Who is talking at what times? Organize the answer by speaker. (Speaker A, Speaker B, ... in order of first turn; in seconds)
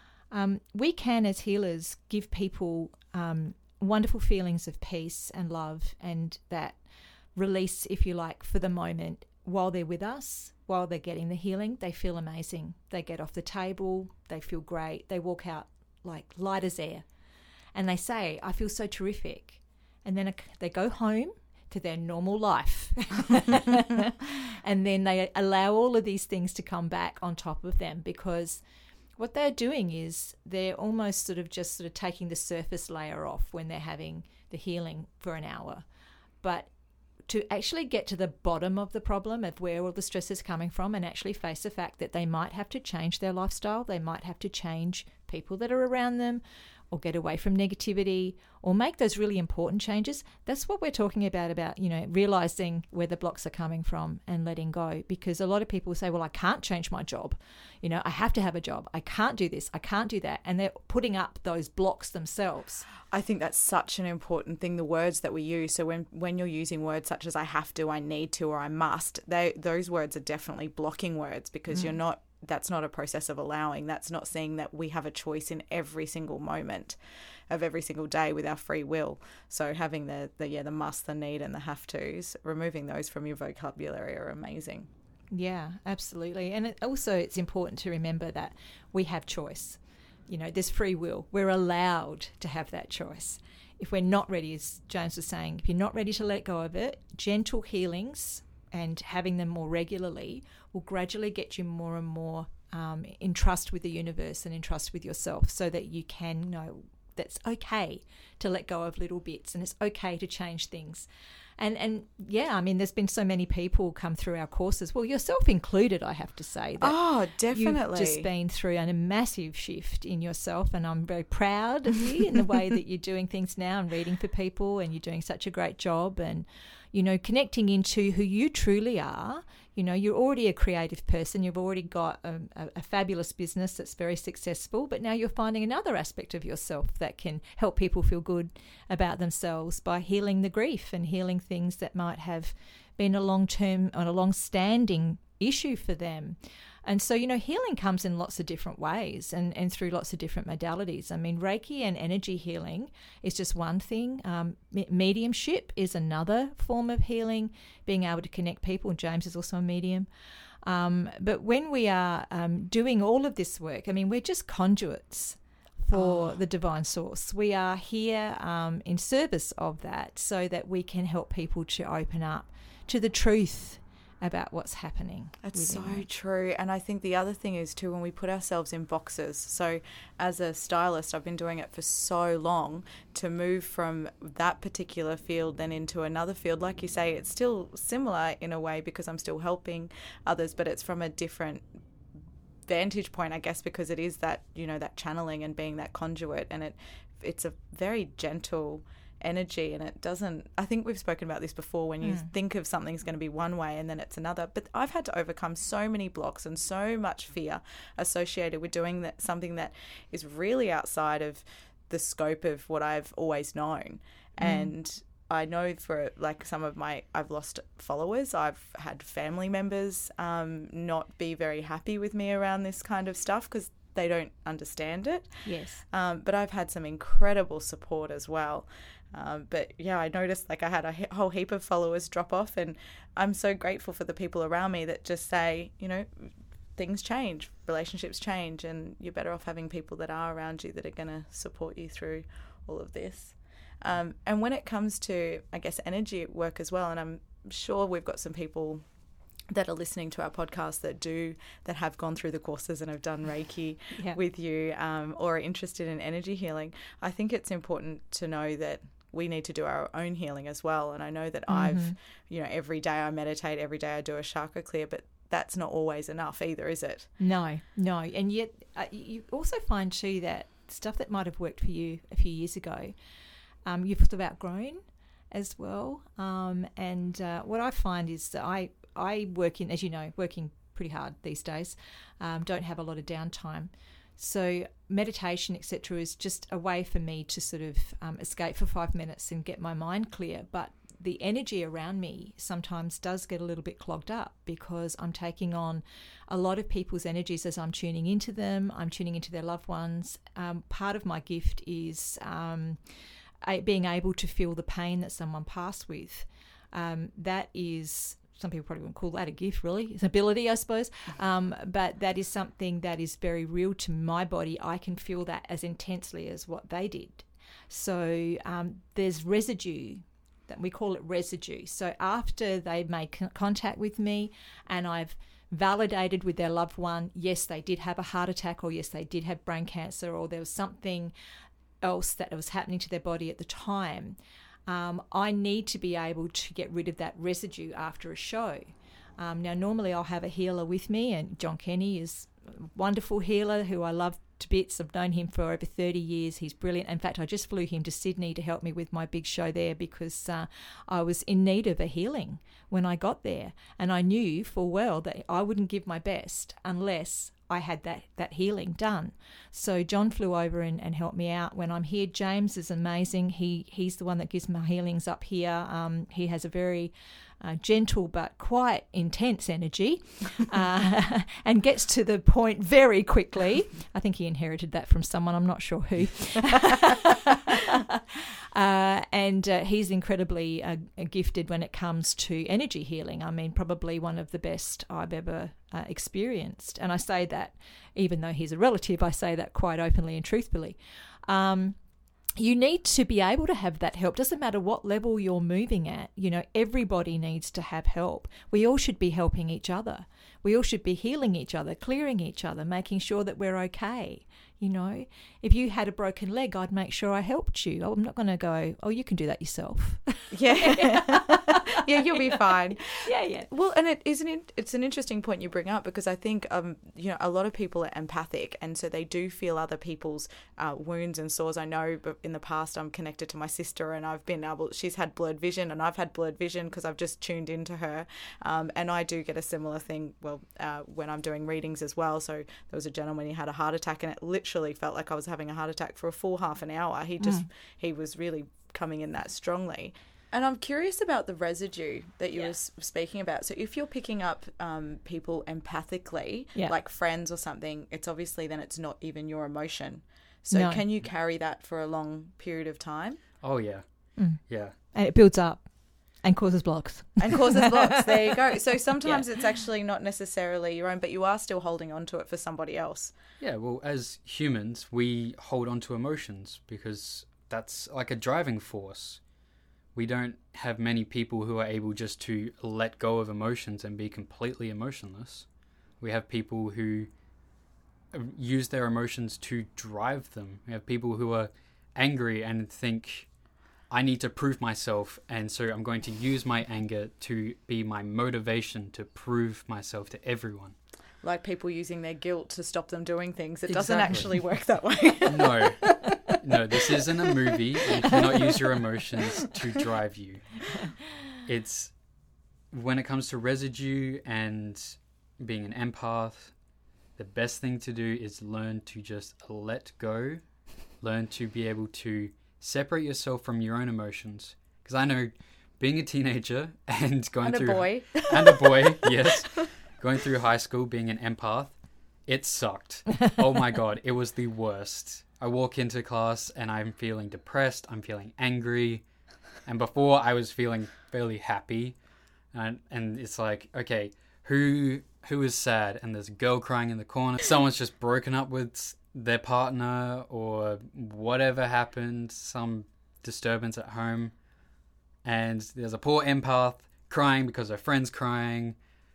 Speaker A: 0.3-6.8, 7.4-17.1, 17.7-28.6, 29.2-35.9, 36.4-36.7, 37.3-62.9, 85.3-117.0, 117.5-160.1, 160.6-176.1, 202.0-202.3, 214.4-214.7, 225.4-225.8, 261.5-262.0, 267.2-272.9, 273.6-302.8, 303.4-331.1, 331.8-391.8, 392.4-411.8, 412.9-413.5, 437.2-437.5, 450.5-450.8, 454.2-455.7, 456.2-458.1
Speaker B: 63.1-77.0, 77.5-84.9, 116.8-118.3, 165.9-166.4, 175.4-191.7, 192.7-248.8, 249.5-267.1, 410.3-453.2, 457.2-463.2, 491.2-496.4, 498.0-498.6, 517.4-519.4
Speaker C: 453.4-453.8, 454.4-454.7, 463.4-469.2, 469.9-475.5, 476.0-477.1, 478.1-483.3, 483.9-490.8, 493.7-494.4, 495.2-500.7, 501.4-501.9, 502.7-506.5, 507.2-529.0, 529.6-532.0, 532.5-544.4, 545.2-548.8